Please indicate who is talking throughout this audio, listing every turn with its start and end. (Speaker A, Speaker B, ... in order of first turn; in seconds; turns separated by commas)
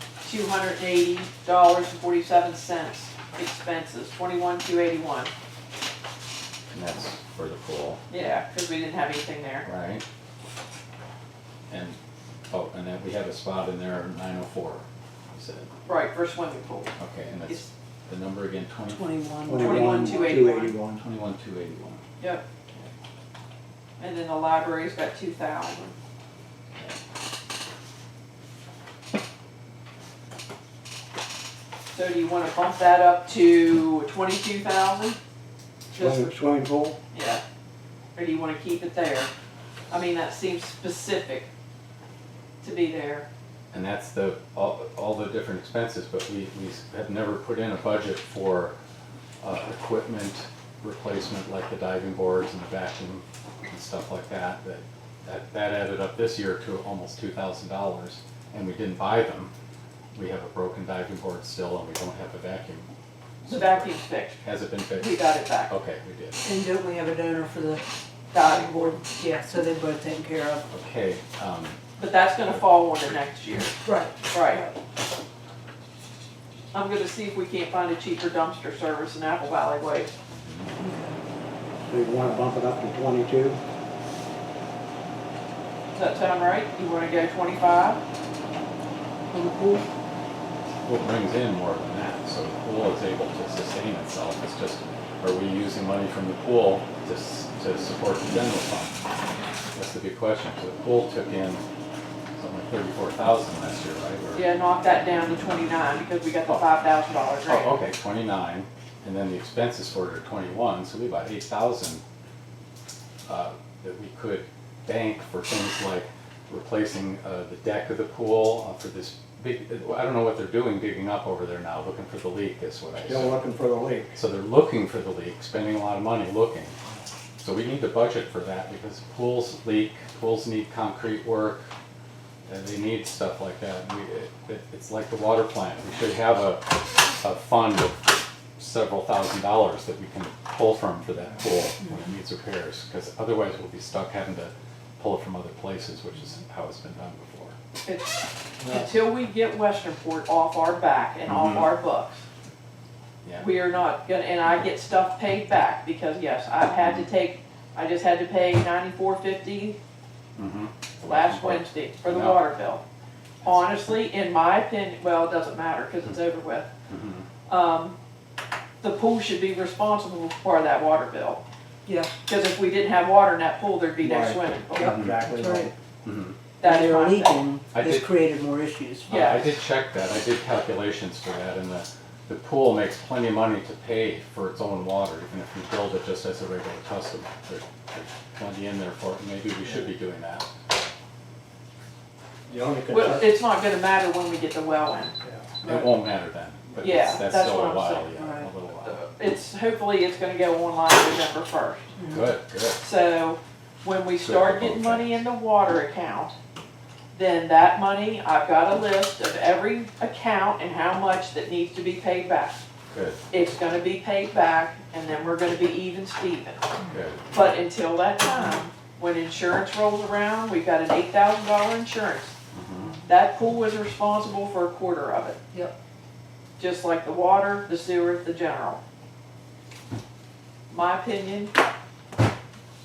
Speaker A: 0.2-5.3, Speaker B: 6.7-8.0, Speaker A: 8.1-9.7, Speaker B: 9.6-10.0, Speaker B: 11.7-12.0, Speaker B: 12.5-15.7, Speaker A: 15.9-16.9, Speaker B: 17.0-19.1, Speaker C: 19.0-20.6, Speaker D: 19.5-21.0, Speaker A: 19.5-20.8, Speaker B: 21.0-22.0, Speaker A: 22.2-22.4, Speaker A: 24.0-26.0, Speaker A: 31.9-35.2, Speaker A: 35.9-36.3, Speaker D: 35.9-37.0, Speaker A: 37.1-37.4, Speaker A: 38.1-39.3, Speaker A: 39.9-41.5, Speaker A: 42.6-43.3, Speaker B: 43.7-48.8, Speaker B: 49.4-59.5, Speaker B: 60.1-62.9, Speaker B: 63.4-66.4, Speaker A: 63.5-65.7, Speaker C: 66.4-70.7, Speaker A: 68.3-69.0, Speaker B: 70.7-71.8, Speaker A: 72.0-74.7, Speaker C: 73.8-74.8, Speaker A: 76.7-80.1, Speaker B: 80.4-80.7, Speaker C: 80.8-81.2, Speaker D: 81.8-83.6, Speaker A: 85.9-88.0, Speaker C: 89.3-89.9, Speaker B: 90.8-99.0, Speaker B: 99.7-101.6, Speaker B: 102.4-104.5, Speaker A: 104.3-107.7, Speaker B: 107.5-112.0, Speaker B: 113.3-123.4, Speaker D: 123.0-124.2, Speaker B: 124.2-126.8, Speaker B: 127.4-131.7, Speaker B: 132.5-147.6, Speaker A: 147.8-152.3, Speaker D: 148.6-149.0, Speaker B: 151.3-151.7, Speaker B: 153.2-153.5, Speaker A: 153.4-159.8, Speaker B: 160.4-162.4, Speaker A: 161.0-162.8, Speaker A: 163.4-166.7, Speaker B: 166.9-167.3, Speaker A: 167.5-168.0, Speaker A: 168.8-171.4, Speaker C: 171.9-172.1, Speaker A: 172.3-175.0, Speaker D: 174.0-175.7, Speaker C: 174.8-175.7, Speaker B: 176.0-176.4, Speaker A: 176.6-177.4, Speaker C: 176.6-179.1, Speaker B: 177.7-178.2, Speaker B: 179.1-190.5, Speaker A: 179.1-179.5, Speaker D: 192.5-193.4, Speaker A: 192.9-195.2, Speaker B: 195.6-199.0, Speaker A: 196.8-198.1, Speaker C: 198.2-198.5, Speaker A: 198.8-201.9, Speaker C: 202.0-202.3, Speaker B: 202.1-202.8, Speaker A: 202.8-206.4, Speaker B: 204.2-205.2, Speaker A: 207.2-212.6, Speaker B: 212.9-213.2, Speaker A: 213.3-216.7, Speaker B: 216.9-217.3, Speaker A: 217.3-222.3, Speaker B: 222.5-223.0, Speaker A: 223.1-225.4, Speaker A: 226.6-228.8, Speaker A: 230.7-231.5